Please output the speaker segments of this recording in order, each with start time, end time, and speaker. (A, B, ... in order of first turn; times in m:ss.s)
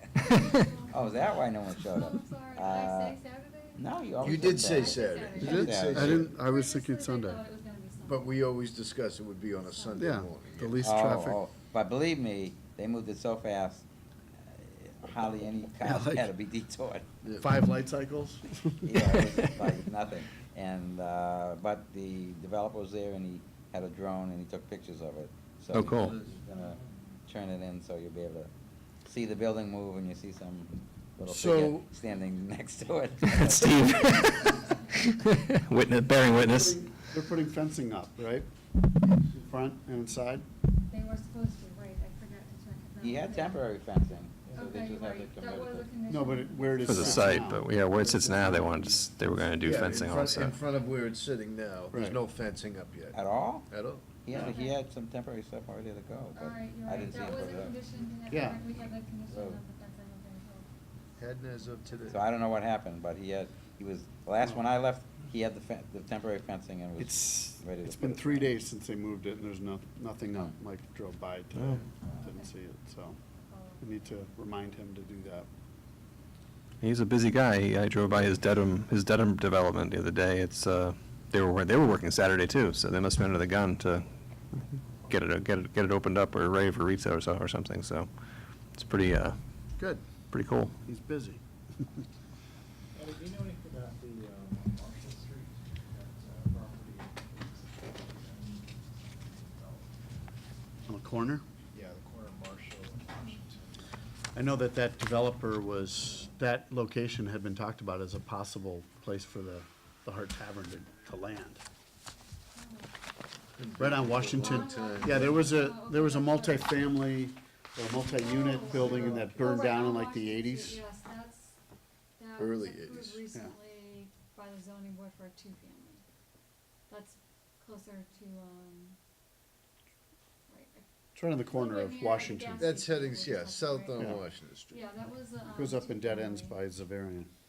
0:00.1-0:08.4 A
0:00.9-0:03.2 B
0:03.8-0:06.3 B
0:04.2-0:06.3 C
0:05.4-0:07.4 D
0:08.0-0:10.8 C
0:09.6-0:10.2 A
0:09.9-0:11.4 D
0:10.8-0:13.8 B
0:14.4-0:17.1 B
0:15.8-0:16.3 D
0:17.2-0:17.5 C
0:17.4-0:19.1 D
0:18.8-0:28.5 B
0:25.7-0:26.2 E
0:25.8-0:26.4 C
0:26.2-0:27.2 F
0:29.0-0:34.1 B
0:31.2-0:31.9 C
0:33.3-0:36.8 E
0:36.3-0:38.5 D
0:39.3-0:40.4 D
0:40.9-0:43.7 A
0:43.0-0:45.9 B
0:44.4-0:44.7 F
0:44.5-0:47.5 A
0:46.1-0:47.7 D
0:46.8-0:50.6 E
0:47.9-0:49.2 F
0:49.6-0:54.5 C
0:53.1-0:57.8 B
0:54.3-0:54.8 A
0:56.3-1:00.7 A
0:58.3-0:58.6 D
0:59.3-0:59.6 B
1:01.2-1:02.2 C
1:01.4-1:02.2 A
1:02.1-1:08.6 B
1:07.0-1:13.2 D
1:11.6-1:11.8 E
1:12.1-1:12.5 A
1:13.4-1:13.9 A
1:13.8-1:15.5 D
1:16.8-1:24.1 E
1:25.0-1:28.1 E
1:28.7-1:29.4 E
1:30.3-1:30.7 E
1:30.8-1:31.4 D
1:32.9-1:40.4 F
1:40.9-1:41.4 D
1:41.7-1:44.0 F
1:44.3-1:51.6 D
1:52.5-1:52.9 A
1:53.6-1:55.6 C
1:53.8-2:00.8 D
1:54.3-1:56.8 A
1:58.2-2:01.6 A
1:58.7-1:59.6 C
2:02.2-2:06.0 A
2:02.4-2:03.2 C
2:06.9-2:09.0 A
2:10.5-2:10.8 A
2:11.1-2:12.7 D
2:11.4-2:16.6 A
2:12.6-2:14.8 C
2:15.5-2:17.3 D